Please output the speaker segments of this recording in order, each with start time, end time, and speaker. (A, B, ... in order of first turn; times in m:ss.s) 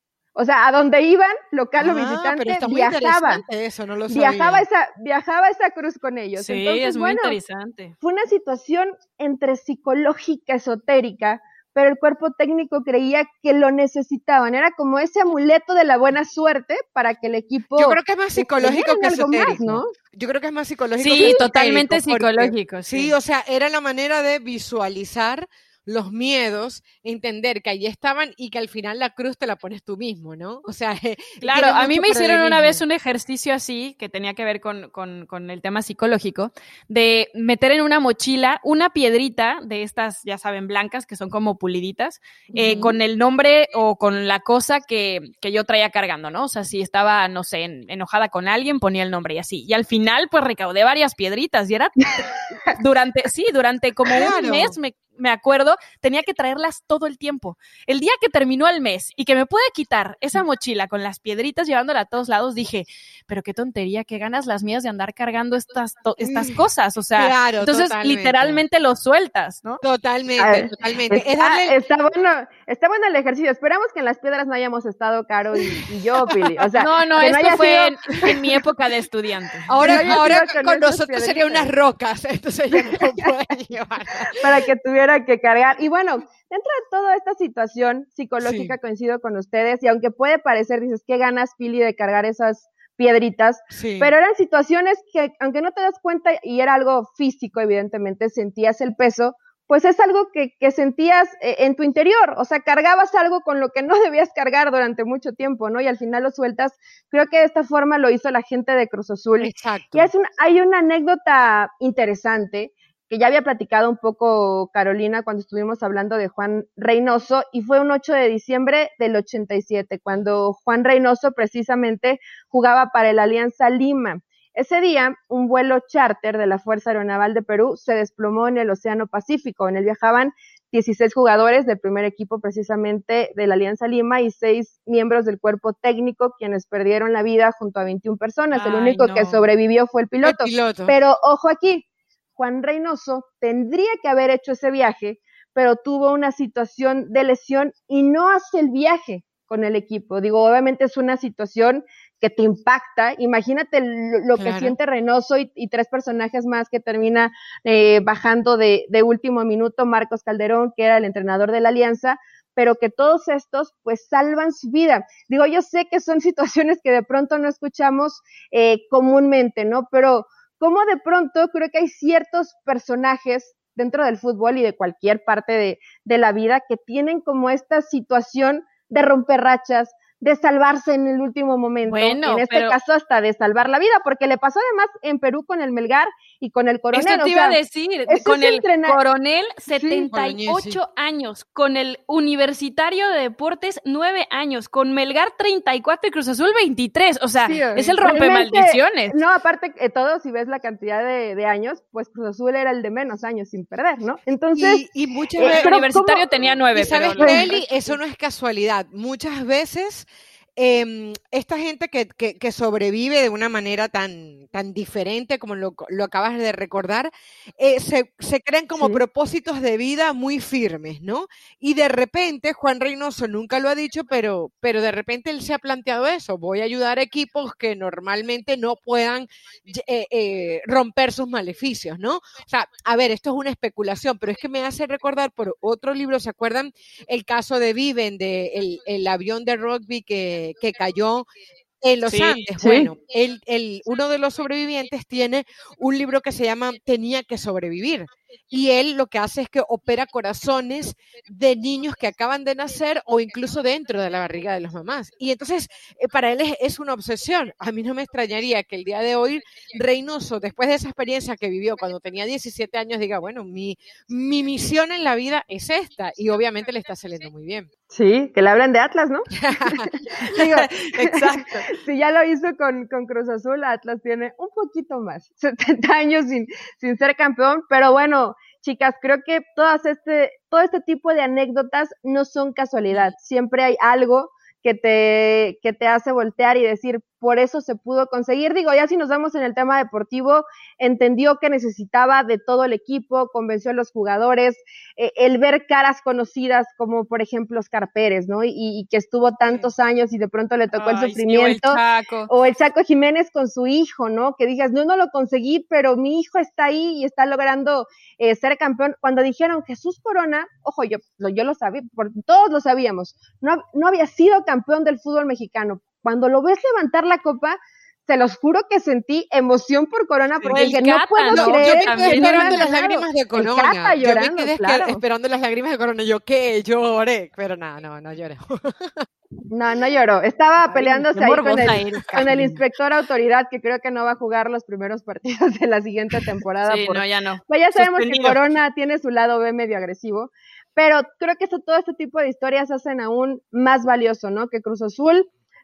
0:00.4-0:03.4 A
0:01.8-0:04.7 B
0:04.1-0:07.4 A
0:06.4-0:08.0 C
0:08.0-0:19.9 A
0:17.8-0:32.8 B
0:21.0-0:23.1 C
0:31.4-1:09.8 C
0:42.5-0:43.0 B
0:54.1-0:54.8 B
1:06.2-1:06.6 B
1:07.2-1:08.6 B
1:09.8-1:11.8 B
1:10.4-1:18.3 A
1:16.8-1:20.1 C
1:19.7-1:24.6 B
1:19.8-1:21.7 A
1:22.7-1:23.3 A
1:24.1-2:21.8 A
1:28.4-1:28.8 B
1:33.7-1:34.1 B
1:49.4-1:50.1 B
2:18.5-2:19.5 C
2:20.2-2:20.9 B
2:22.4-3:09.0 A
2:34.4-2:34.8 B
3:01.8-3:02.8 C
3:06.9-3:19.2 C
3:09.7-3:10.1 A
3:10.1-3:10.8 B
3:17.4-3:24.8 A
3:24.6-3:25.8 B
3:25.4-3:26.3 A
3:25.4-3:27.7 C
3:26.7-3:30.1 B
3:27.2-3:27.5 A
3:30.6-4:01.3 B
4:01.8-4:27.7 B
4:02.1-4:02.8 C
4:02.6-4:02.9 A
4:27.9-5:25.0 A
4:29.3-4:31.6 B
5:00.8-5:02.3 C
5:20.5-5:22.8 C
5:21.3-5:29.0 B
5:29.5-5:45.3 A
5:30.6-5:32.6 C
5:36.6-5:38.4 C